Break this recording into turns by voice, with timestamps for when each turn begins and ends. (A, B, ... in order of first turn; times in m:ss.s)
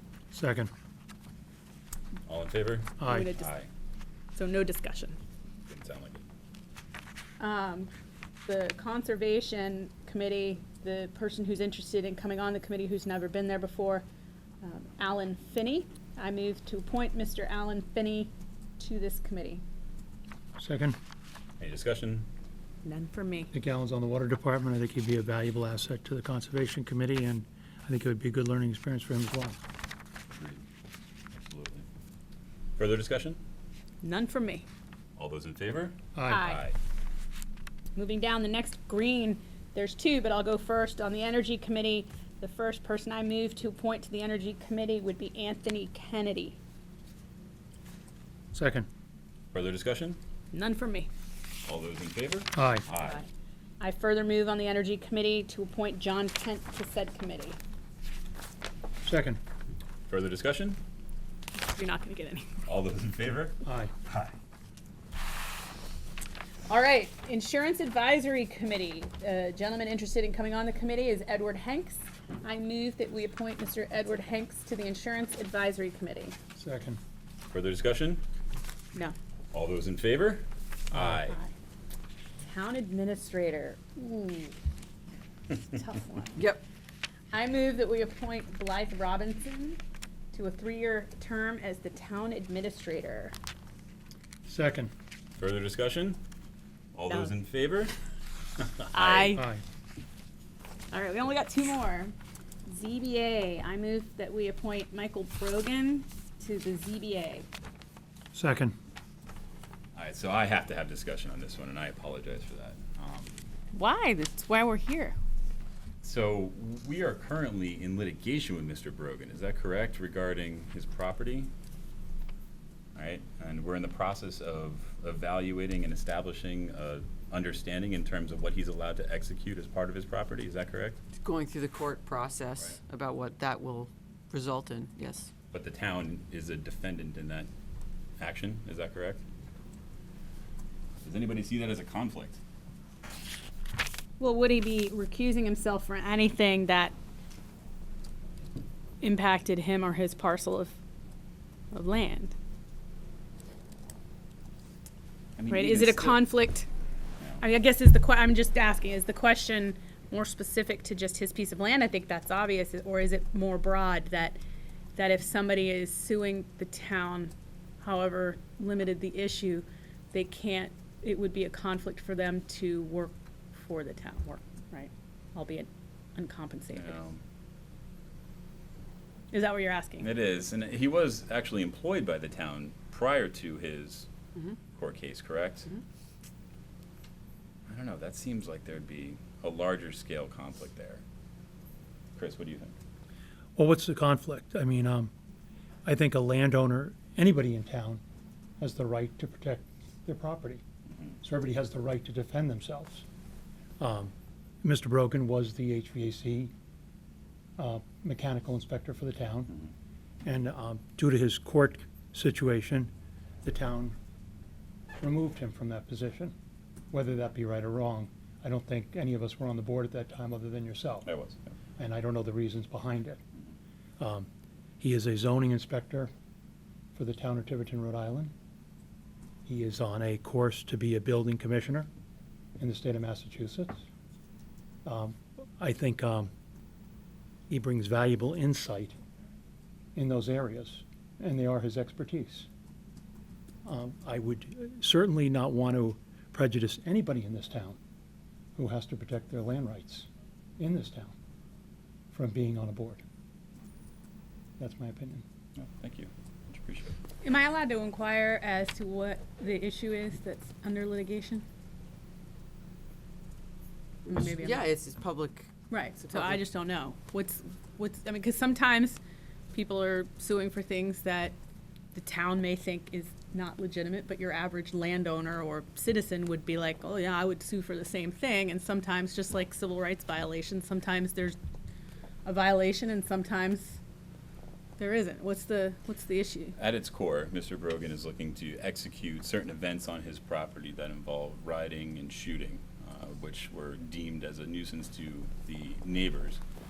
0:00.3-0:00.7 A
0:02.2-0:03.7 B
0:03.0-0:03.3 A
0:03.0-0:03.5 C
0:04.3-0:05.2 C
0:05.7-0:06.2 B
0:07.4-0:07.9 C
0:08.4-0:14.0 C
0:14.6-0:19.6 C
0:20.6-0:21.0 A
0:21.6-0:22.3 B
0:22.8-0:23.5 C
0:23.5-0:29.6 A
0:30.3-0:30.6 B
0:31.5-0:31.8 B
0:32.8-0:33.4 B
0:34.0-0:34.7 C
0:35.2-0:36.8 B
0:36.1-0:36.6 A
0:36.3-0:36.6 C
0:38.0-0:46.6 C
0:48.5-0:48.9 A
0:49.5-0:50.2 B
0:50.5-0:51.1 C
0:51.6-0:53.2 B
0:52.5-0:52.8 A
0:53.0-0:53.3 C
0:53.8-0:57.6 C
0:59.0-0:59.4 A
1:00.1-1:00.8 B
1:01.6-1:02.6 C
1:02.6-1:04.3 B
1:03.6-1:03.9 A
1:06.7-1:16.4 C
1:16.6-1:17.0 A
1:17.5-1:18.2 B
1:19.5-1:21.4 B
1:21.0-1:21.5 C
1:22.4-1:24.6 C
1:25.5-1:26.4 C
1:26.4-1:26.6 D
1:27.3-1:29.8 C
1:30.3-1:33.3 C
1:34.5-1:34.9 A
1:35.4-1:36.2 B
1:36.9-1:37.9 B
1:37.1-1:37.3 C
1:38.6-1:39.4 B
1:38.9-1:39.4 C
1:39.4-1:39.6 A
1:40.9-1:42.1 C
1:42.7-1:47.5 C
1:48.3-1:48.7 A
1:49.9-1:53.4 B
1:53.7-1:55.2 C
1:56.0-2:01.5 B
2:02.9-2:11.0 B
2:11.1-2:15.3 D
2:15.5-2:17.5 B
2:18.2-2:19.2 B
2:21.0-2:22.4 B
2:24.2-2:26.9 C
2:29.0-2:30.7 C
2:31.7-2:32.3 C
2:35.4-2:36.3 B
2:35.5-2:36.7 C
2:37.4-2:44.4 C
2:44.9-2:57.0 C
2:56.7-2:57.2 B
2:59.3-3:00.1 C
3:00.0-3:04.1 B
3:04.7-3:05.7 B
3:07.7-3:11.0 B
3:12.2-3:12.7 B
3:13.6-3:15.1 A
3:15.8-3:18.0 A
3:18.6-3:20.6 A
3:20.9-3:21.2 B
3:21.2-3:23.0 A
3:23.8-3:26.5 A
3:27.6-3:29.6 A
3:30.2-3:32.9 A
3:33.4-3:34.0 A
3:35.0-3:36.3 A
3:36.9-3:41.1 A
3:41.0-3:41.5 B
3:41.8-3:43.2 A
3:44.0-3:44.3 A
3:44.8-3:46.1 A
3:46.9-3:48.3 A
3:49.4-3:51.9 A
3:52.6-3:53.8 A
3:54.8-3:56.3 A
3:57.5-3:59.0 A
3:59.9-4:02.5 A
4:03.6-4:07.8 A
4:08.6-4:11.1 A
4:12.1-4:13.0 A
4:14.6-4:15.2 A
4:15.6-4:17.0 B
4:17.2-4:21.4 C
4:24.0-4:26.4 D
4:24.1-4:24.7 C
4:25.7-4:29.0 C
4:29.5-4:31.3 C
4:31.9-4:41.4 C
4:42.2-4:43.8 C
4:44.8-4:46.6 C
4:46.6-4:56.4 B